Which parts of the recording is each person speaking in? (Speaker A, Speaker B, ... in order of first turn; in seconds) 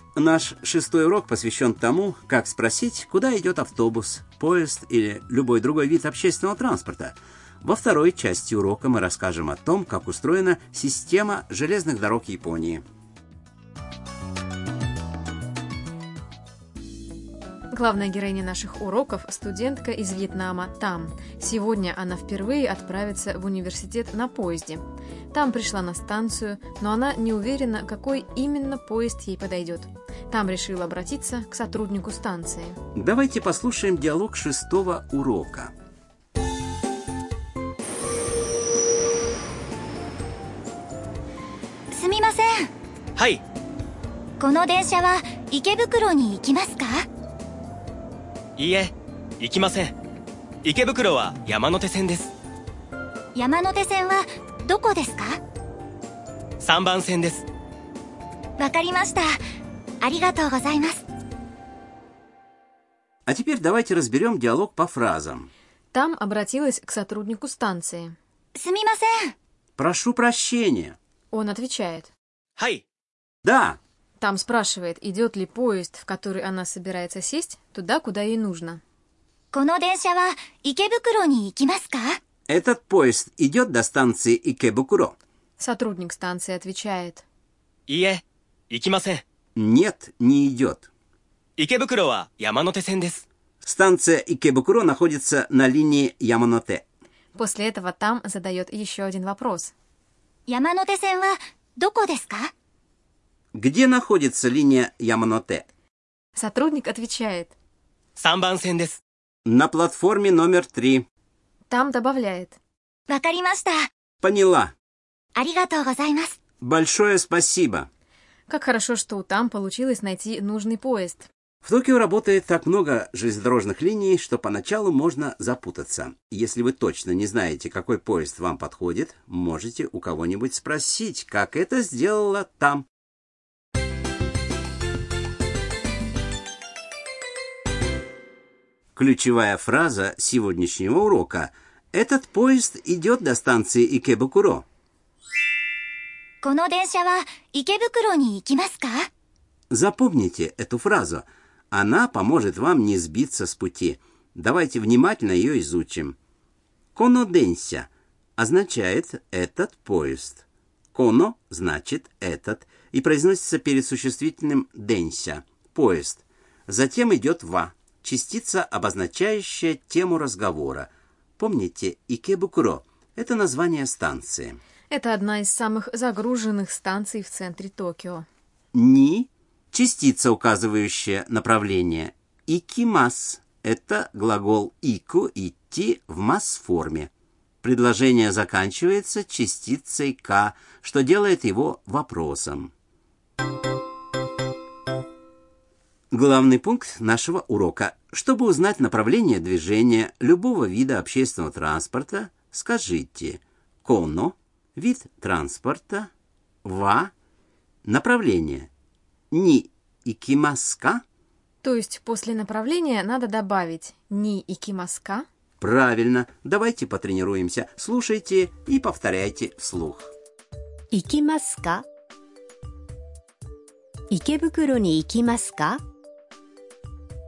Speaker A: 0.1-12.8, 32.9-35.7, 63.2-65.5, 69.8-71.0, 73.4-73.8, 82.5-85.2, 89.5-90.9, 93.6-96.8, 103.5-105.6, 109.5-111.0, 114.2-114.7, 116.6-117.9, 121.6-132.8, 138.9-144.6, 149.7-156.2, 156.9-174.6, 178.7-187.1, 187.6-192.7, 196.1-206.1, 206.6-207.1, 207.8-208.7, 209.3-211.0, 215.6-220.1
Speaker B: 17.7-32.8, 65.9-68.1, 71.3-72.1, 74.2-78.8, 85.6-87.2, 97.3-99.7, 106.3-107.5, 111.7-112.6, 118.5-121.3, 174.9-178.2, 211.6-215.2
Speaker C: 41.9-42.7, 44.4-47.0, 53.3-55.4, 58.6-59.3, 60.0-61.0, 68.5-69.3, 79.5-82.2, 100.5-102.5, 113.1-113.8, 115.3-116.3, 146.4-149.1
Speaker D: 43.1-43.4, 48.6-49.9, 50.6-52.3, 56.6-57.5, 72.6-72.8, 87.9-89.2, 91.6-93.2, 108.2-109.0
Speaker E: 220.9-221.8, 224.1-225.8